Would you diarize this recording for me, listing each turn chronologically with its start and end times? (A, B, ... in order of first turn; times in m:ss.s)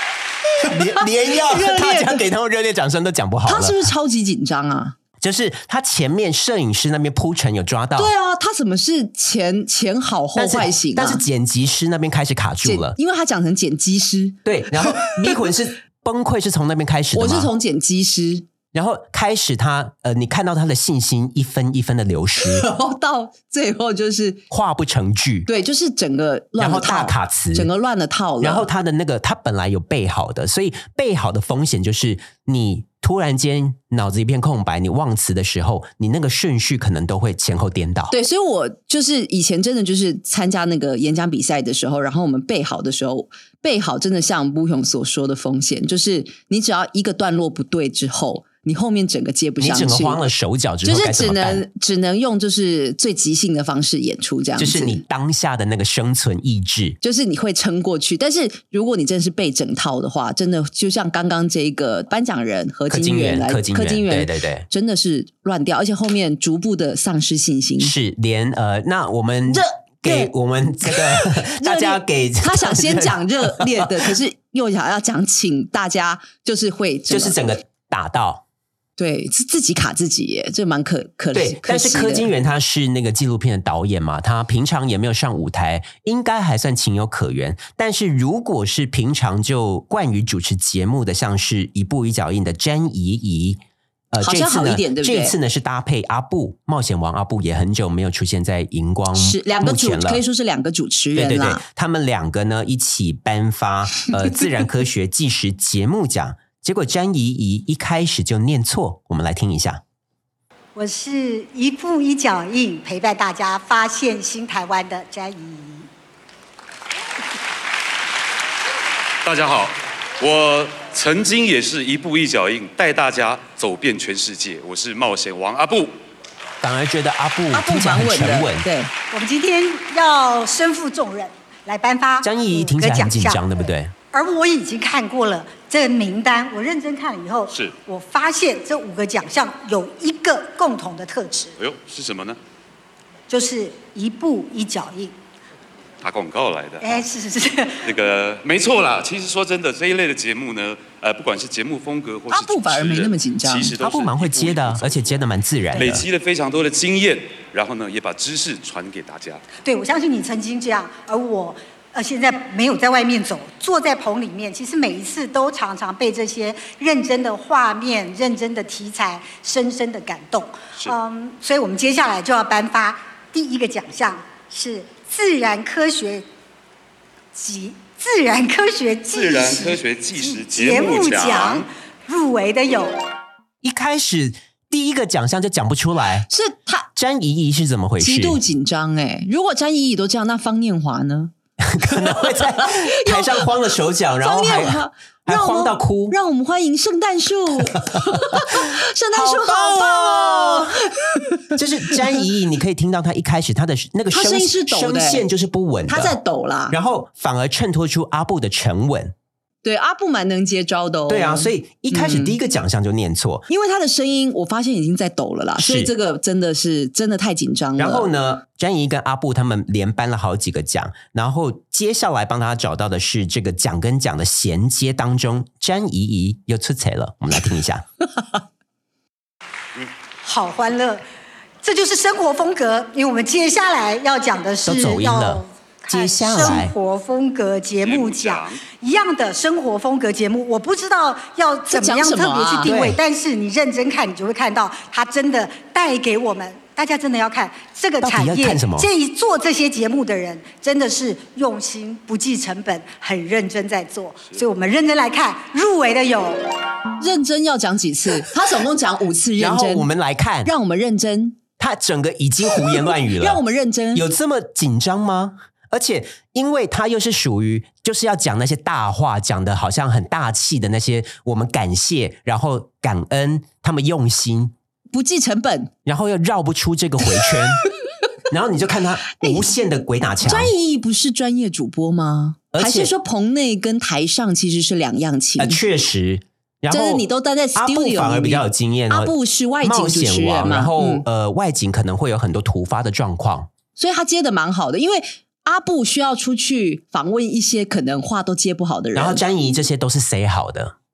0:00.6-0:03.9 A
0:01.4-0:02.2 B
0:03.5-0:05.0 B
0:05.2-0:08.1 A
0:08.0-0:11.2 B
0:10.4-0:13.0 A
0:12.6-0:15.3 B
0:14.4-0:17.5 A
0:17.1-0:18.4 B
0:18.7-0:22.7 A
0:22.4-0:24.4 B
0:24.5-0:25.5 A
0:25.5-0:28.7 B
0:26.6-0:27.7 A
0:28.4-0:38.1 A
0:38.1-0:50.2 B
0:49.6-0:51.6 A
0:50.8-0:55.0 B
0:54.6-0:57.0 A
0:57.0-1:07.9 B
1:02.9-1:04.7 A
1:07.8-1:14.0 A
1:09.5-1:10.3 B
1:10.8-1:17.4 B
1:17.1-1:18.4 A
1:19.0-1:22.3 B
1:21.3-1:40.2 A
1:34.2-1:35.4 B
1:39.1-1:41.6 B
1:41.2-1:49.8 A
1:50.8-1:55.9 C
1:59.2-2:05.9 D
2:06.6-2:08.7 A
2:07.5-2:08.9 B
2:09.1-2:13.4 C
2:12.2-2:13.9 A
2:14.1-2:21.6 C
2:17.5-2:17.8 D
2:21.6-2:22.4 D
2:23.3-2:25.2 C
2:26.0-2:27.1 D
2:26.8-2:27.8 C
2:27.8-2:35.2 D
2:32.3-2:33.7 B
2:33.8-2:36.0 A
2:35.7-2:39.4 D
2:39.6-2:56.2 C
2:57.4-3:02.9 C
2:59.1-3:01.7 D
3:03.6-3:06.3 A
3:06.3-3:06.9 B
3:07.0-3:08.4 A
3:08.0-3:11.3 B
3:11.6-3:16.2 A
3:11.9-3:13.4 B
3:14.2-3:21.4 B
3:19.1-3:20.8 A
3:21.5-3:26.2 A
3:24.1-3:25.2 B
3:25.9-3:26.8 B
3:26.7-3:29.1 A
3:29.6-3:32.4 B
3:31.1-3:33.5 A
3:33.5-3:38.1 B
3:35.6-3:35.9 A
3:37.8-3:47.8 A
3:50.2-3:51.0 C
3:51.6-4:16.4 C
3:54.6-3:56.7 A
3:57.8-3:58.6 D
4:01.7-4:02.8 B
4:02.6-4:03.0 A
4:08.0-4:08.9 A
4:17.0-4:19.9 B
4:19.4-4:20.5 A
4:20.4-4:21.4 B
4:21.6-4:23.4 A
4:23.1-4:24.0 B
4:23.9-4:34.6 A
4:34.9-4:35.7 B
4:35.9-4:37.6 A
4:38.3-4:40.5 A
4:40.2-4:45.6 B
4:42.5-4:42.9 A
4:45.4-4:53.5 A
4:46.7-4:51.0 B
4:53.8-4:59.2 B
4:59.0-5:00.7 A